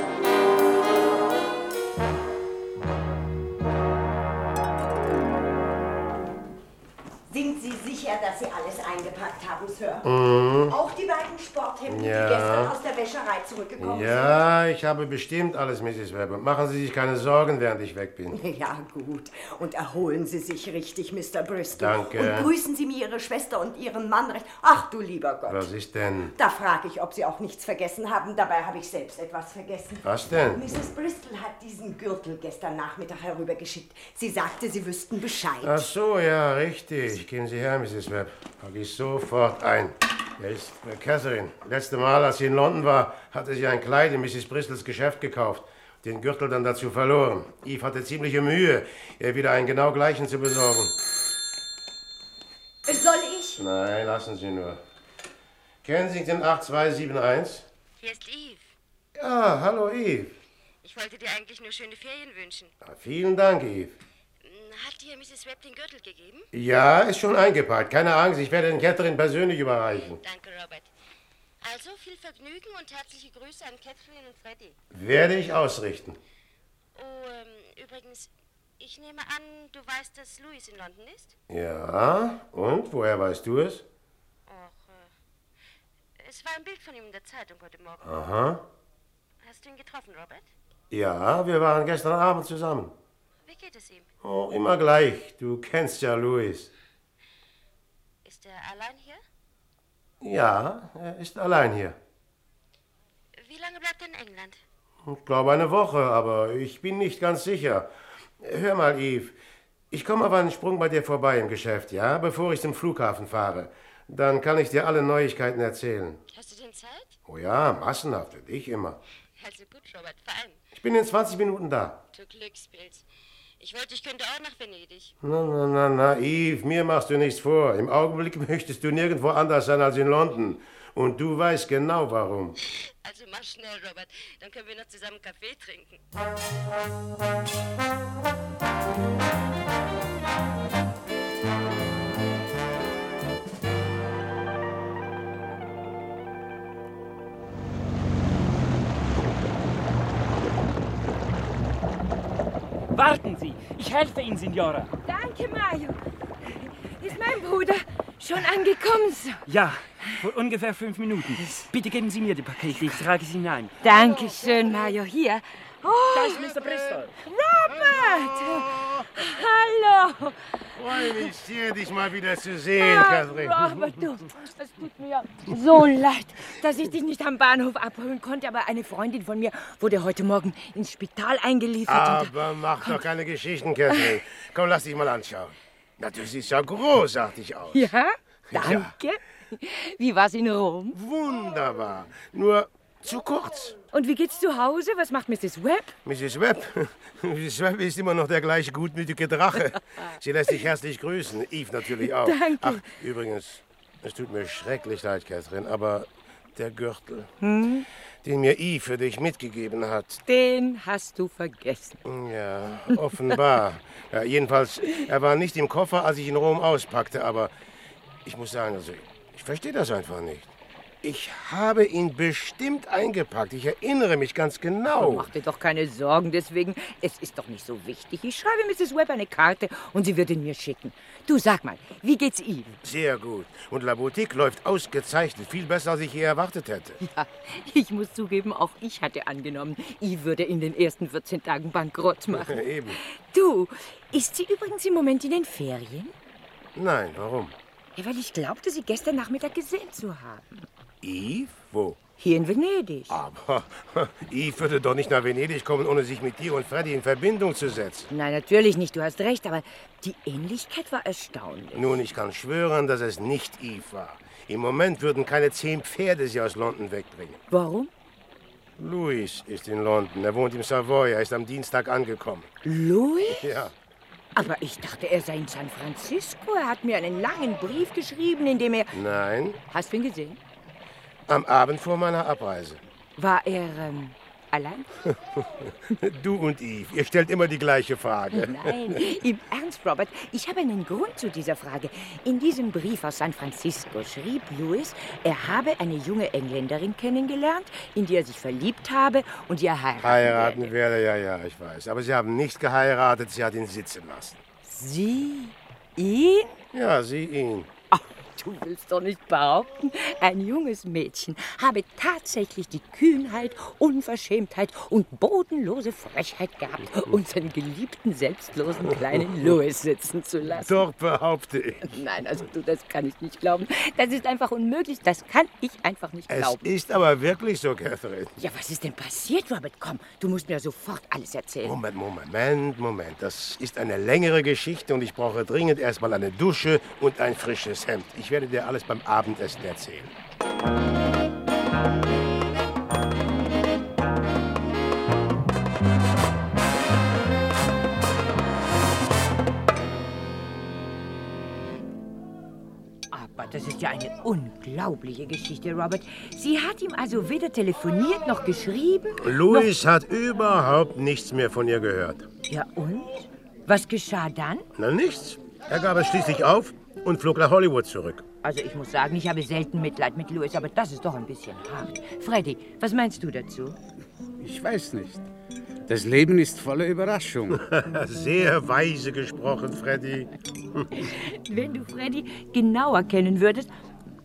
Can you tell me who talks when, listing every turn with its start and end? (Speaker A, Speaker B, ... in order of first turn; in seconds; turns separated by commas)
Speaker A: 7.3-10.1, Speaker B: 10.0-10.8, Speaker A: 10.7-14.4, Speaker B: 11.9-12.8, Speaker B: 13.8-18.4, Speaker A: 18.3-25.7, Speaker B: 21.7-22.5, Speaker B: 25.5-26.4, Speaker A: 26.4-35.9, Speaker B: 30.0-30.6, Speaker B: 35.6-50.9, Speaker C: 52.9-53.5, Speaker B: 53.6-54.8, Speaker B: 55.8-57.6, Speaker D: 58.0-58.7, Speaker B: 59.2-60.4, Speaker D: 60.8-62.7, Speaker B: 62.8-64.0, Speaker D: 64.4-66.5, Speaker B: 66.5-70.2, Speaker D: 70.0-70.9, Speaker D: 71.6-74.8, Speaker B: 74.9-76.2, Speaker D: 77.0-81.4, Speaker B: 81.5-83.8, Speaker D: 84.5-85.1, Speaker D: 86.2-88.2, Speaker B: 88.0-88.6, Speaker D: 89.4-90.5, Speaker B: 90.9-92.9, Speaker D: 93.5-94.1, Speaker B: 94.2-96.7, Speaker D: 98.2-99.2, Speaker B: 100.2-102.0, Speaker D: 103.4-104.6, Speaker B: 105.1-107.9, Speaker B: 108.4-109.4, Speaker B: 109.9-116.2, Speaker D: 116.3-117.2, Speaker B: 117.3-119.0, Speaker D: 119.4-120.6, Speaker B: 120.8-122.0, Speaker D: 122.1-123.0, Speaker D: 123.6-125.1, Speaker B: 125.2-132.6, Speaker D: 133.0-136.0, Speaker E: 152.9-154.9, Speaker C: 155.1-156.0, Speaker C: 156.6-159.4, Speaker E: 159.5-163.8, Speaker C: 161.4-161.7, Speaker C: 163.8-166.4, Speaker E: 166.1-167.1, Speaker C: 167.2-171.2, Speaker B: 167.8-169.1, Speaker B: 170.8-173.7, Speaker C: 172.8-183.0, Speaker B: 181.9-187.9, Speaker C: 183.9-184.2, Speaker C: 187.7-191.0, Speaker B: 188.5-188.9, Speaker B: 190.9-193.8, Speaker C: 193.9-195.9, Speaker B: 196.1-207.3, Speaker C: 202.0-202.8, Speaker C: 207.4-207.9, Speaker B: 208.2-210.2, Speaker C: 210.3-212.0, Speaker B: 212.1-217.5, Speaker B: 218.3-220.5, Speaker B: 221.0-225.3, Speaker C: 224.9-232.8, Speaker B: 232.8-237.0, Speaker C: 237.0-246.1, Speaker B: 242.3-243.0, Speaker B: 246.8-247.6, Speaker C: 248.0-250.7, Speaker B: 251.0-252.0, Speaker C: 252.2-253.2, Speaker B: 253.1-258.1, Speaker C: 258.1-262.0, Speaker B: 261.8-267.4, Speaker C: 267.5-267.9, Speaker B: 268.8-272.5, Speaker C: 272.6-273.5, Speaker B: 273.4-273.7, Speaker C: 274.4-278.9, Speaker B: 278.9-279.6, Speaker C: 279.7-280.4, Speaker B: 281.3-282.8, Speaker C: 283.2-284.9, Speaker B: 285.7-289.0, Speaker C: 288.3-300.7, Speaker B: 300.0-304.4, Speaker C: 304.6-306.5, Speaker B: 306.7-307.7, Speaker C: 307.9-320.8, Speaker B: 320.6-322.0, Speaker C: 321.8-326.7, Speaker B: 326.3-328.3, Speaker C: 328.4-331.8, Speaker B: 331.6-340.1, Speaker C: 353.1-359.7, Speaker B: 359.2-362.3, Speaker C: 362.5-364.7, Speaker B: 364.8-368.2, Speaker C: 368.4-373.8, Speaker F: 374.4-375.3, Speaker F: 375.9-377.6, Speaker B: 377.5-380.9, Speaker C: 381.0-383.7